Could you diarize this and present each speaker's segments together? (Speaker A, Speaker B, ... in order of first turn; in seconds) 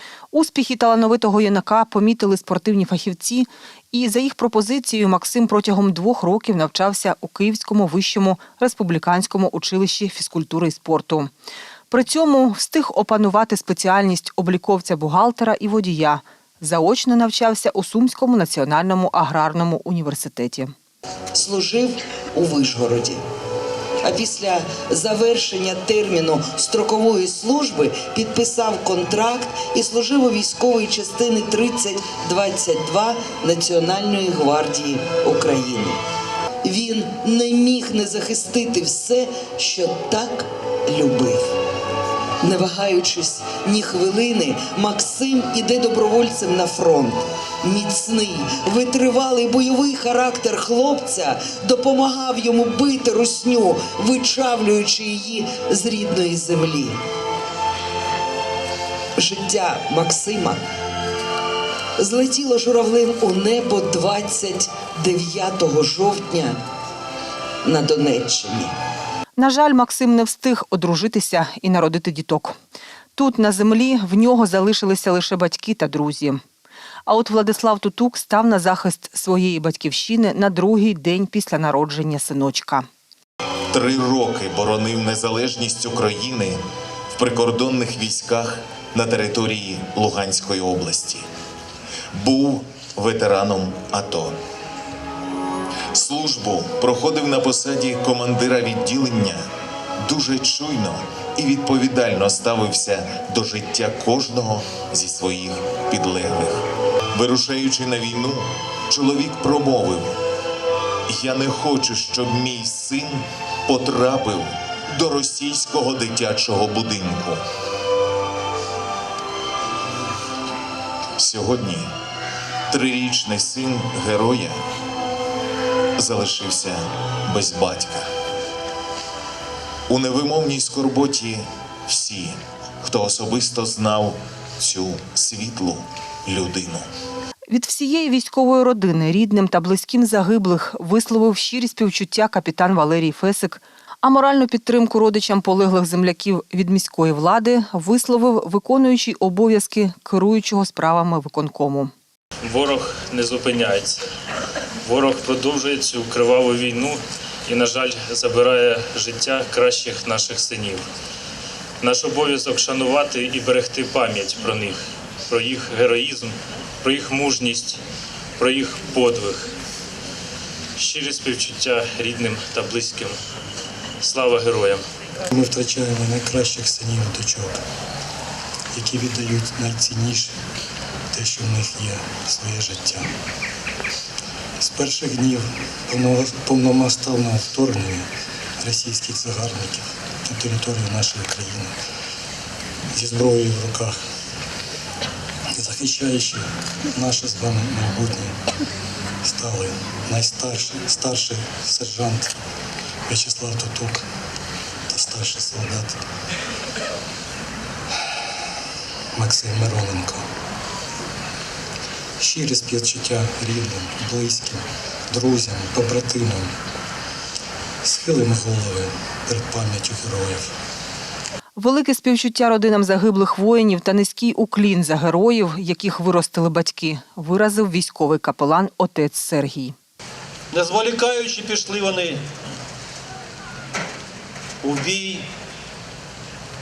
Speaker A: 0.3-11.3, 11.9-20.7, 69.4-72.5, 73.2-76.4, 77.1-82.8, 137.5-151.9, 221.6-229.7
Speaker B: 21.3-23.2, 24.0-36.0, 36.6-41.4, 42.4-57.0, 59.2-60.6, 62.0-66.6, 67.6-68.7
Speaker C: 83.7-86.6, 87.1-91.2, 92.1-94.4, 95.9-99.4, 100.0-106.6, 107.1-110.2, 111.1-117.4, 121.2-121.9, 122.7-124.6, 126.0-128.1, 129.9-136.9
Speaker D: 152.4-154.0, 154.8-160.8, 161.8-167.8, 168.4-169.5, 170.8-173.2, 174.0-174.8
Speaker E: 175.3-177.6, 178.7-180.3, 181.1-183.1, 184.6-188.1, 188.6-191.8, 192.9-193.9, 195.5-198.4, 199.2-202.4, 203.1-204.1, 204.9-206.0, 209.1-210.2, 212.2-216.5, 217.8-220.5
Speaker F: 230.5-232.2, 234.6-235.2